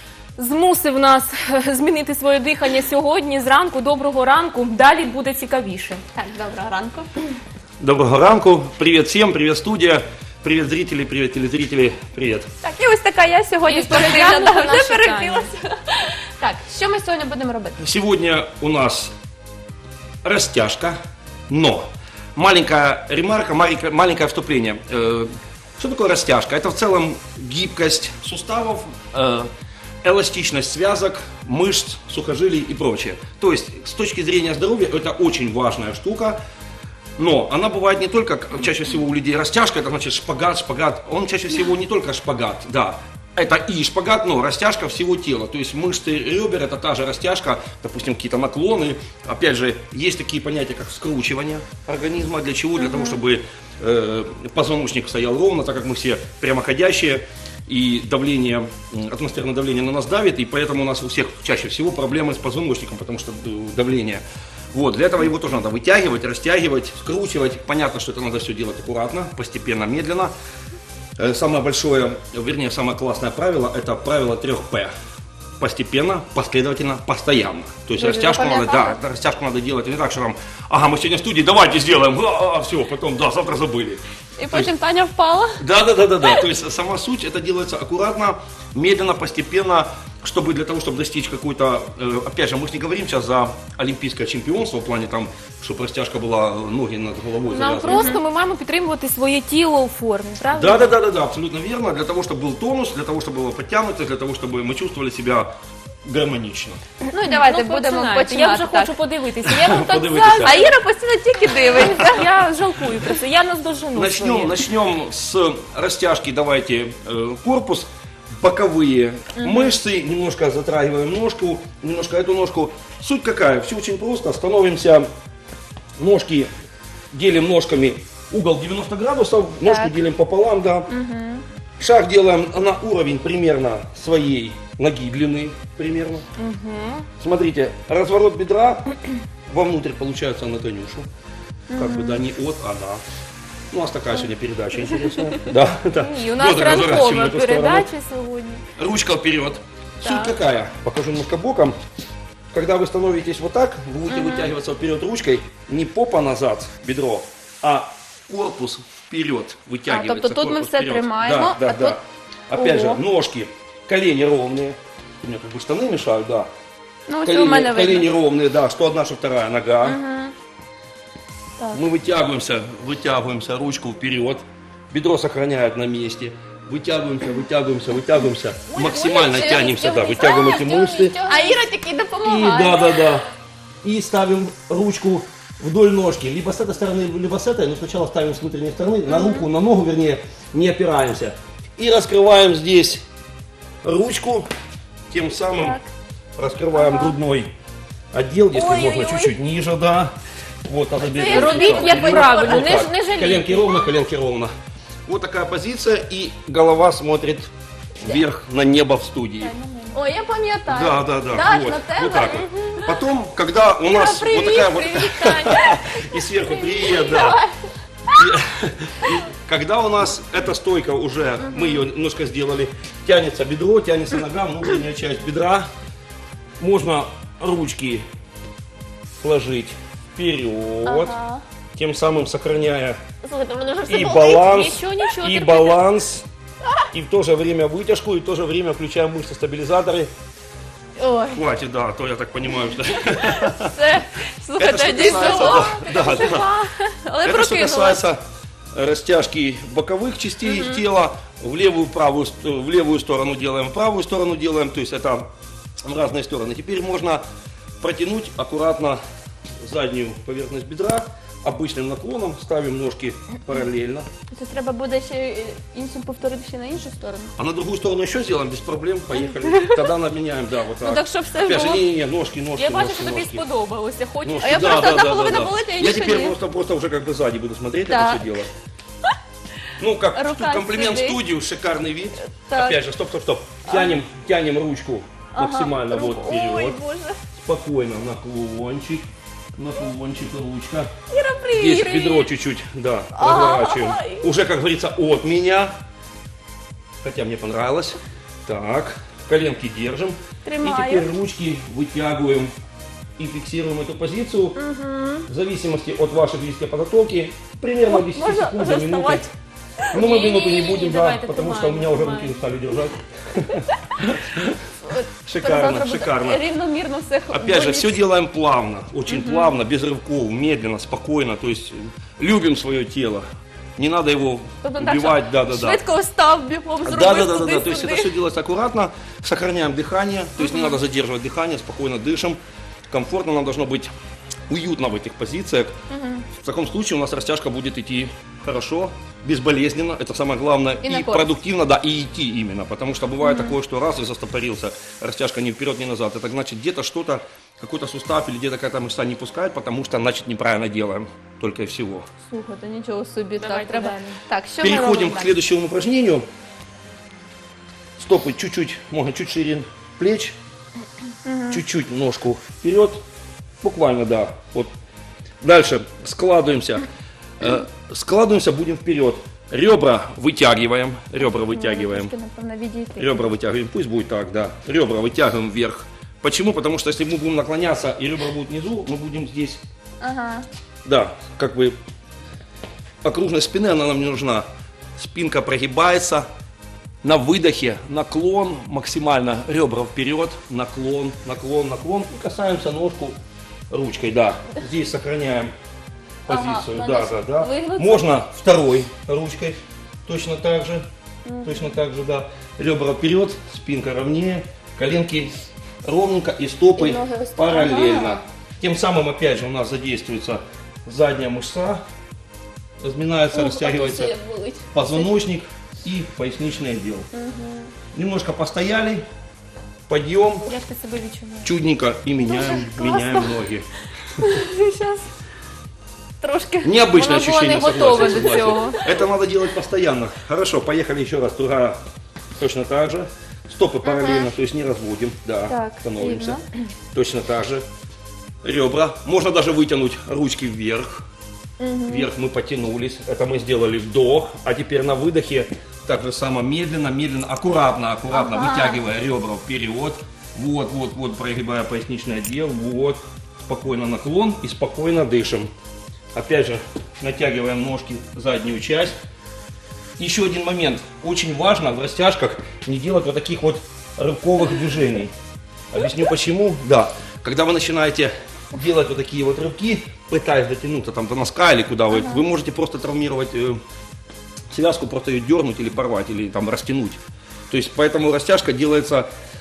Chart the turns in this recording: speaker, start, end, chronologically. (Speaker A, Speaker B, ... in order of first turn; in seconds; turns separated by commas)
Speaker A: 0.4-6.0, Speaker B: 6.1-7.2, Speaker C: 7.8-12.5, Speaker B: 12.6-17.8, Speaker A: 13.6-15.5, Speaker C: 17.8-19.1, Speaker C: 20.2-21.0, Speaker C: 21.5-21.9, Speaker C: 22.4-29.5, Speaker C: 30.0-36.4, Speaker C: 37.2-70.3, Speaker C: 71.2-74.9, Speaker C: 75.6-84.7, Speaker B: 78.0-79.0, Speaker B: 84.4-85.6, Speaker C: 85.6-98.2, Speaker A: 97.5-100.9, Speaker B: 97.9-98.2, Speaker C: 100.5-105.5, Speaker C: 106.0-106.8, Speaker B: 107.1-109.0, Speaker A: 107.1-110.8, Speaker C: 109.5-110.7, Speaker B: 109.7-112.3, Speaker A: 111.5-114.6, Speaker C: 113.9-125.1, Speaker B: 119.4-119.8, Speaker C: 126.0-126.5, Speaker C: 127.1-130.9, Speaker B: 129.6-129.9, Speaker B: 130.9-131.4, Speaker C: 131.8-136.3, Speaker A: 136.4-137.1, Speaker C: 137.2-141.1, Speaker B: 141.7-142.2, Speaker C: 141.8-143.0, Speaker C: 143.7-147.9, Speaker A: 145.9-148.6, Speaker C: 148.8-151.8, Speaker A: 150.1-150.3, Speaker C: 152.5-166.5, Speaker B: 154.2-154.4, Speaker B: 159.9-162.0, Speaker B: 162.5-163.0, Speaker B: 167.1-168.1, Speaker C: 167.2-170.0, Speaker B: 169.8-170.3, Speaker C: 171.7-181.2, Speaker B: 178.7-183.2, Speaker C: 182.2-183.3, Speaker C: 183.8-193.0, Speaker B: 189.1-189.4, Speaker C: 193.8-194.5, Speaker C: 195.1-195.8, Speaker B: 195.5-195.9, Speaker C: 196.4-197.5, Speaker B: 196.8-197.2, Speaker C: 198.1-204.5, Speaker B: 198.5-199.3, Speaker B: 201.1-203.9, Speaker A: 201.2-203.5, Speaker C: 205.1-209.5, Speaker B: 209.4-213.0, Speaker C: 210.7-217.4, Speaker B: 213.9-214.4, Speaker A: 214.0-215.8, Speaker B: 215.4-217.5, Speaker C: 218.1-225.7, Speaker B: 221.5-221.8, Speaker C: 226.6-228.1, Speaker C: 229.2-231.1, Speaker B: 230.8-231.4, Speaker C: 231.8-233.0, Speaker B: 233.2-234.5, Speaker C: 233.9-236.3, Speaker A: 233.9-235.8, Speaker C: 236.9-240.1, Speaker B: 241.0-241.4, Speaker C: 241.3-243.7, Speaker B: 243.1-248.0, Speaker C: 244.6-246.5, Speaker C: 247.2-248.2, Speaker C: 248.7-255.3, Speaker B: 250.5-250.8, Speaker C: 255.8-257.2, Speaker C: 257.8-259.0, Speaker C: 259.6-264.1, Speaker B: 264.3-267.3, Speaker C: 267.4-273.4, Speaker B: 269.4-269.8, Speaker B: 270.8-271.8, Speaker A: 272.6-275.2, Speaker C: 274.2-278.5, Speaker B: 274.4-276.4, Speaker B: 277.9-278.5, Speaker C: 279.7-286.8, Speaker B: 280.1-281.2, Speaker B: 282.2-282.8, Speaker B: 283.7-284.0, Speaker B: 285.3-287.2, Speaker C: 287.3-290.9, Speaker B: 291.1-292.3, Speaker C: 291.5-295.7, Speaker B: 293.1-294.3, Speaker C: 297.0-302.5, Speaker B: 300.4-301.1, Speaker C: 303.2-304.6, Speaker B: 304.6-305.3, Speaker C: 305.3-309.3, Speaker B: 307.9-309.3, Speaker C: 309.9-314.6, Speaker A: 309.9-312.4, Speaker B: 314.9-318.0, Speaker C: 315.2-316.4, Speaker C: 317.3-323.2, Speaker B: 319.1-319.5, Speaker C: 323.8-325.8, Speaker B: 324.6-328.1, Speaker C: 326.8-332.4, Speaker B: 330.4-330.7, Speaker C: 332.9-333.9, Speaker C: 334.5-335.8, Speaker B: 335.9-336.3, Speaker C: 336.3-352.1, Speaker B: 340.8-341.3, Speaker B: 343.2-343.6, Speaker B: 352.3-355.3, Speaker A: 353.4-354.2, Speaker C: 354.6-356.3, Speaker C: 358.0-360.4, Speaker B: 361.2-361.6, Speaker C: 361.5-363.0, Speaker C: 363.6-364.7, Speaker C: 365.4-366.9, Speaker C: 367.4-372.1, Speaker B: 371.5-373.3, Speaker C: 373.0-379.6, Speaker B: 380.0-380.5, Speaker C: 380.8-381.8, Speaker C: 383.0-384.4, Speaker C: 385.0-386.3, Speaker C: 387.0-393.2, Speaker C: 393.7-395.5, Speaker C: 396.3-400.9, Speaker B: 396.3-398.2, Speaker B: 401.2-401.7, Speaker C: 401.4-411.8, Speaker B: 406.8-408.2, Speaker C: 412.8-414.2, Speaker B: 413.3-415.1, Speaker C: 414.7-417.1, Speaker B: 417.1-417.7, Speaker C: 417.9-419.0, Speaker C: 419.9-420.5, Speaker A: 420.5-421.5, Speaker C: 421.4-423.7, Speaker B: 422.2-423.3, Speaker B: 424.2-425.1, Speaker B: 426.2-428.9, Speaker C: 426.6-431.8, Speaker A: 426.9-428.8, Speaker C: 432.4-436.4, Speaker B: 433.9-434.3, Speaker B: 435.5-436.4, Speaker C: 436.9-437.6, Speaker C: 438.4-441.0, Speaker B: 441.6-442.1, Speaker C: 441.9-455.5, Speaker B: 448.1-448.8, Speaker C: 456.1-459.0, Speaker C: 460.0-465.1, Speaker C: 465.7-473.6, Speaker B: 471.9-472.2, Speaker C: 474.5-477.0, Speaker C: 477.5-479.1